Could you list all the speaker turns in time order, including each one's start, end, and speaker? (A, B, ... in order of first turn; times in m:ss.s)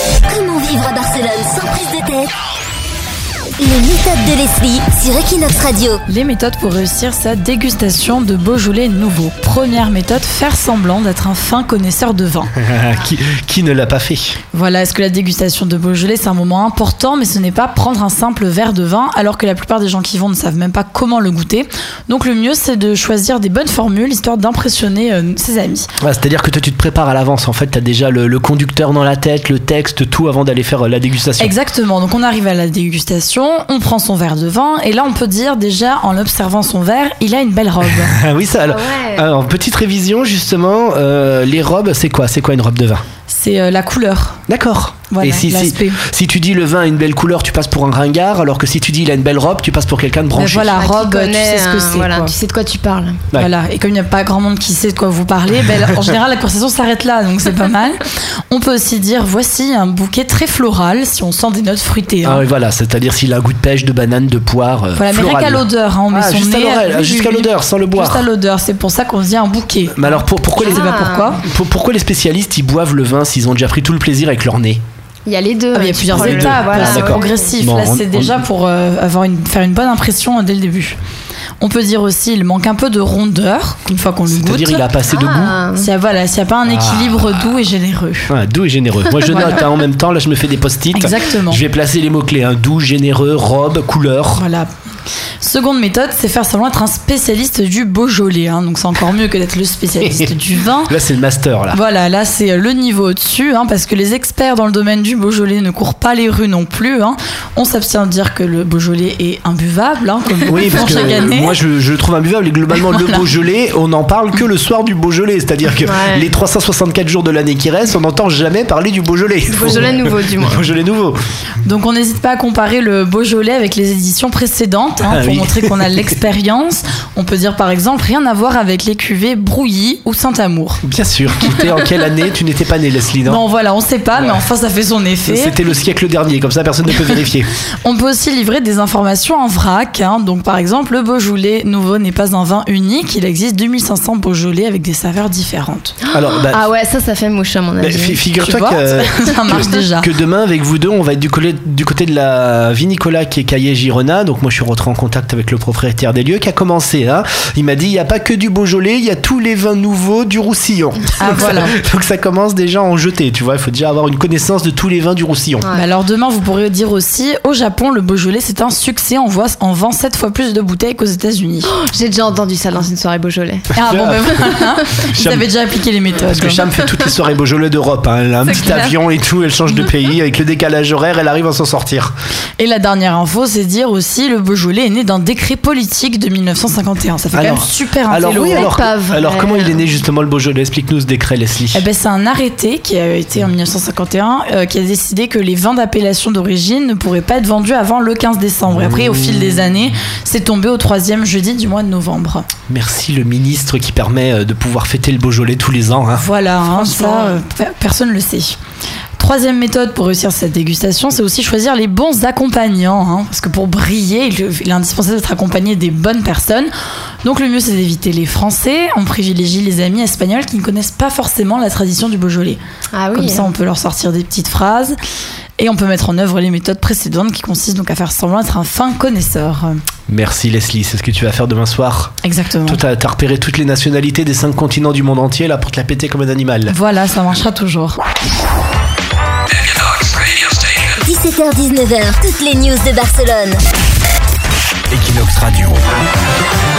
0:00.2-0:02.3 A
0:03.6-0:06.0 A
0:06.1-0:12.5 B
0:12.6-0:14.4 C
0:14.5-0:25.9 B
0:26.0-0:31.6 C
0:31.4-0:38.2 B
0:38.0-0:43.0 C
0:38.6-0:39.2 D
0:43.3-0:44.4 B
0:44.5-0:50.8 C
0:45.1-0:46.0 B
0:50.3-0:52.3 B
0:50.7-0:53.2 D
0:53.3-1:02.4 B
1:02.2-1:08.2 C
1:05.0-1:11.4 B
1:09.9-1:14.8 C
1:10.6-1:11.4 D
1:15.2-1:17.5 D
1:15.7-1:21.0 B
1:16.1-1:18.4 C
1:21.6-1:24.8 B
1:24.3-1:25.6 C
1:25.1-1:25.9 D
1:25.8-1:28.3 B
1:26.6-1:27.4 C
1:28.3-1:34.4 C
1:29.3-1:29.6 B
1:30.9-1:31.6 B
1:34.3-1:34.7 B
1:35.4-1:40.9 B
1:40.8-1:41.8 C
1:41.7-1:51.6 B
1:50.4-2:01.2 C
1:52.7-1:53.3 B
1:55.8-1:56.3 D
1:59.5-2:00.6 D
2:01.6-2:10.8 B
2:05.0-2:05.9 C
2:10.8-2:13.4 C
2:11.4-2:11.7 B
2:13.2-2:15.6 B
2:15.2-2:17.5 C
2:17.8-2:26.0 B
2:26.0-2:28.2 D
2:26.1-2:26.6 C
2:27.8-2:45.7 C
2:28.4-2:30.1 B
2:41.2-2:41.8 B
2:45.6-2:45.8 D
2:45.7-2:51.7 B
2:51.7-2:53.7 D
2:53.7-2:56.8 B
2:53.8-2:55.5 C
2:56.2-3:02.1 C
2:58.4-2:59.0 D
3:02.6-3:08.8 B
3:07.3-3:11.8 C
3:08.5-3:09.8 D
3:11.7-3:22.5 B
3:18.7-3:19.7 C
3:22.7-3:26.2 C
3:26.1-3:28.6 B
3:26.7-3:27.4 D
3:29.2-3:36.7 B
3:37.2-3:42.6 B
3:42.9-3:43.5 D
3:43.1-3:45.0 B
3:45.6-3:49.8 B
3:50.1-3:52.1 C
3:52.2-3:52.8 B
3:52.7-3:56.8 C
3:56.7-3:58.0 B
4:01.0-4:03.6 A
4:04.9-4:05.8 C